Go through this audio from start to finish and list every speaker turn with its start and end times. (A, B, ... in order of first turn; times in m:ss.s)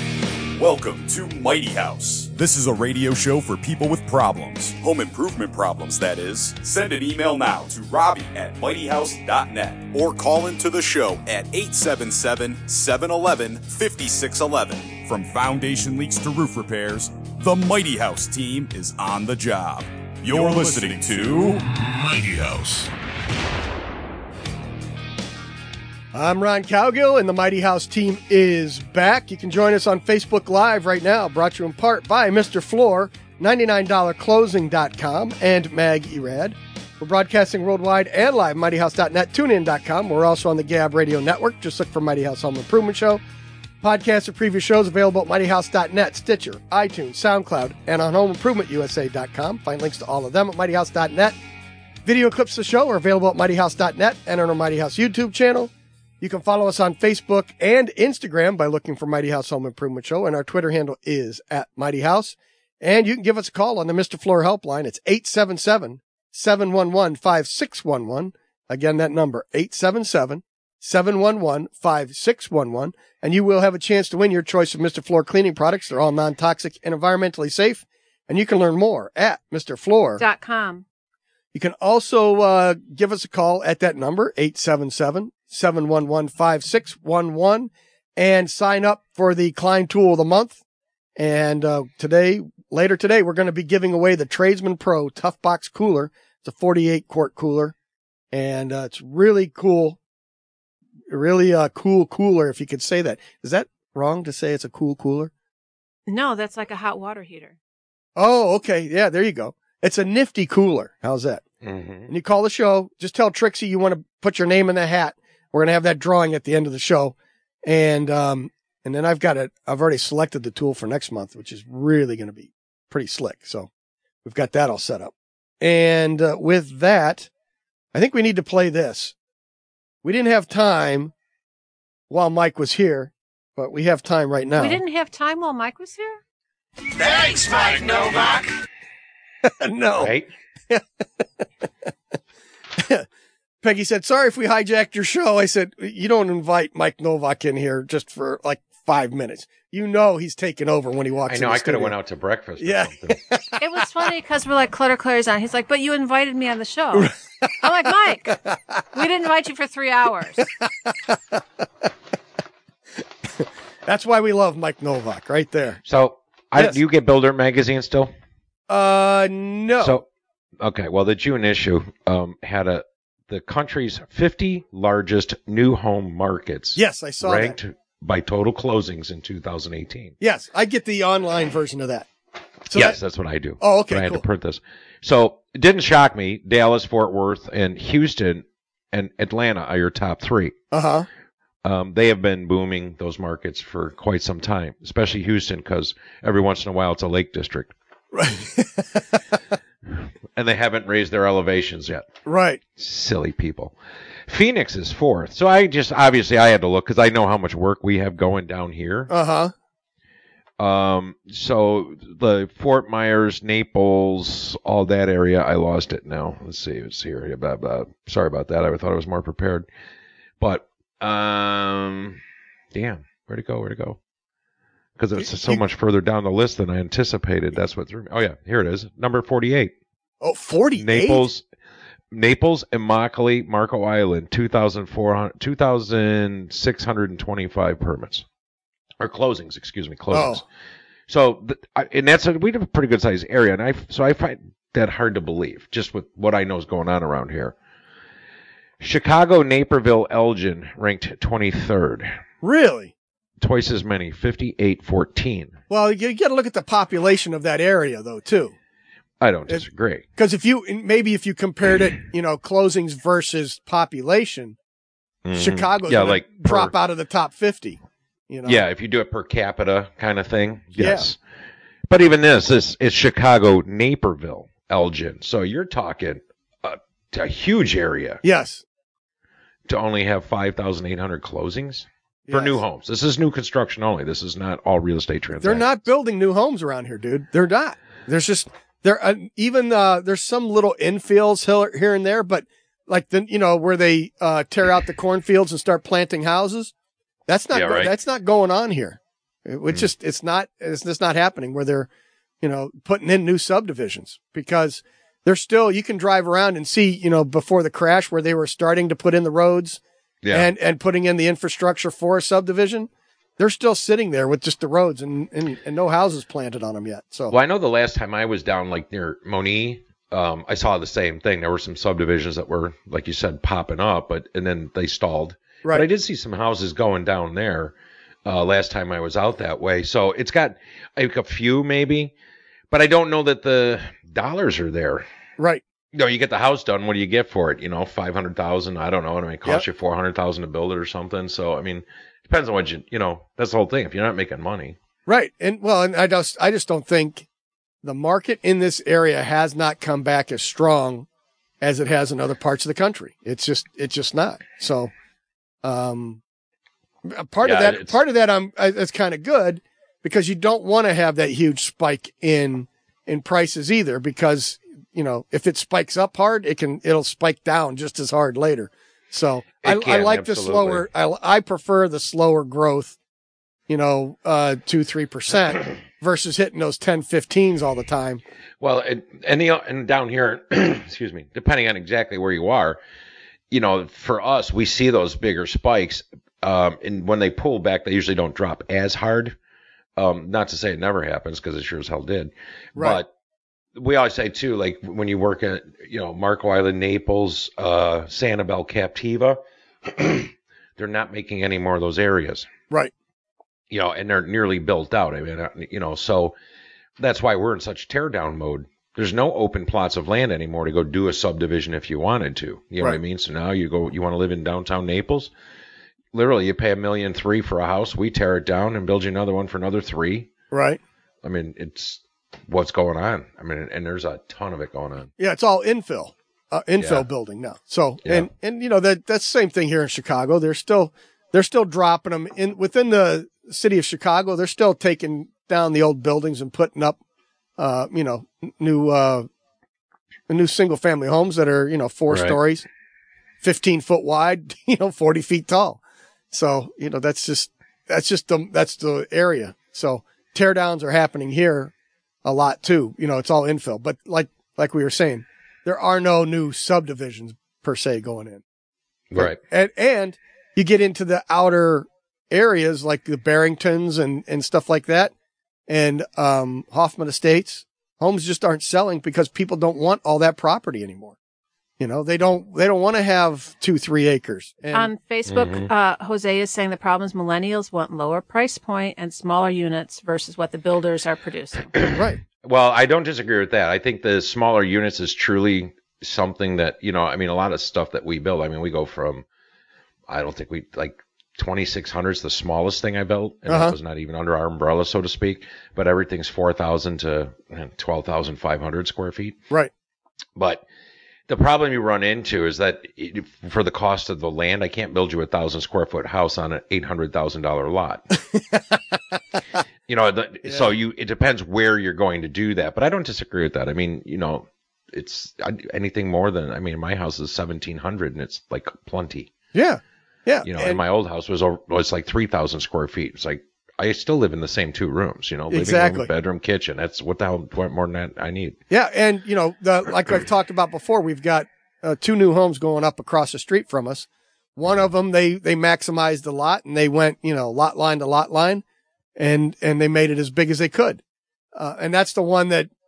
0:00.6-0:21.6 A
0:21.7-0:22.9 B
0:26.1-0:43.2 C
0:43.8-0:51.4 C
0:52.0-1:20.2 C
1:20.2-1:20.8 D
1:21.5-1:30.6 C
1:31.2-1:37.8 C
1:38.3-1:40.0 C
1:41.1-1:45.3 C
1:46.1-1:47.6 D
1:48.2-1:51.4 C
1:51.6-1:52.1 E
1:52.1-2:03.7 C
2:04.2-2:07.3 C
2:07.9-2:09.1 C
2:10.0-2:11.1 C
2:12.1-2:14.8 C
2:14.6-2:16.2 D
2:17.0-2:18.6 B
2:19.4-2:20.1 C
2:20.0-2:20.3 E
2:20.7-2:21.2 C
2:22.8-2:23.1 C
2:23.6-2:32.0 C
2:31.3-2:33.2 E
2:32.6-2:33.5 C
2:33.6-2:38.4 D
2:36.9-2:37.5 C
2:38.3-2:38.8 C
2:38.9-2:40.5 D
2:40.9-2:41.4 C
2:43.2-2:45.8 C
2:45.9-2:48.1 E
2:46.6-2:46.8 C
2:48.7-2:50.0 C
2:49.8-2:50.1 E
2:50.6-3:00.2 E
2:56.8-2:57.6 C
3:00.2-3:02.1 C
3:02.7-3:03.0 C
3:02.7-3:10.6 E
3:03.6-3:04.2 C
3:10.7-3:11.1 C
3:11.6-3:17.7 E
3:18.1-3:19.2 C
3:20.4-3:22.1 E
3:22.3-3:22.6 C
3:22.8-3:23.8 E
3:24.3-3:29.1 E
3:29.1-3:29.5 C
3:30.6-3:39.7 E
3:40.4-3:42.2 E
3:42.7-3:44.0 E
3:45.0-3:49.7 E
3:45.2-3:45.6 C
3:50.2-3:51.2 C
3:50.8-3:51.4 E
3:52.1-3:58.2 E
3:59.0-4:00.4 E
4:00.1-4:00.4 C
4:01.1-4:07.6 E
4:08.8-4:12.1 E
4:12.4-4:12.9 C
4:13.4-4:15.6 E
4:15.7-4:18.5 C
4:19.2-4:20.0 E
4:20.2-4:24.6 C
4:25.2-4:26.7 E
4:25.4-4:28.6 C
4:28.5-4:31.2 E
4:30.8-4:31.1 C
4:31.9-4:38.2 E
4:38.2-4:38.6 C
4:39.7-4:45.8 E
4:42.3-4:42.6 C
4:45.4-4:56.7 C
4:57.3-5:01.9 C
4:57.5-4:57.9 E
5:02.4-5:09.8 C
5:10.2-5:10.5 E
5:10.3-5:17.4 C
5:17.3-5:27.7 E
5:28.2-5:32.1 E
5:32.7-5:35.0 E
5:35.4-5:35.6 C
5:35.9-5:44.8 E
5:45.1-5:47.2 C
5:47.8-5:51.1 C
5:51.6-5:54.9 C
5:55.6-5:56.2 C
5:57.1-6:13.0 C
5:57.4-5:58.0 E
6:09.6-6:10.9 E
6:13.7-6:18.2 C
6:18.6-6:22.8 E
6:23.5-6:29.4 E
6:30.0-6:33.1 E
6:32.8-6:33.0 C
6:33.8-6:42.5 E
6:43.7-6:46.4 E
6:47.0-6:55.3 E
6:56.1-7:00.3 E
7:00.5-7:00.8 C
7:01.2-7:05.1 E
7:05.2-7:17.0 C
7:06.8-7:07.0 E
7:17.6-7:19.3 C
7:20.3-7:22.7 C
7:22.1-7:22.4 E
7:23.4-7:25.8 C
7:26.3-7:31.7 C
7:32.2-7:38.4 C
7:39.1-7:39.4 E
7:39.2-7:45.1 C
7:45.7-7:51.2 C
7:51.8-7:54.9 C
7:54.7-8:01.7 D
7:55.3-7:55.7 E
8:01.8-8:09.2 E
8:01.8-8:02.2 C
8:10.1-8:19.4 E
8:13.5-8:13.8 C
8:20.4-8:20.6 E
8:21.3-8:28.2 E
8:29.9-8:39.3 E
8:39.5-8:40.8 C
8:40.4-8:48.6 E
8:45.5-8:46.1 C
8:48.7-8:58.6 C
8:59.2-9:01.0 C
9:01.6-9:02.7 C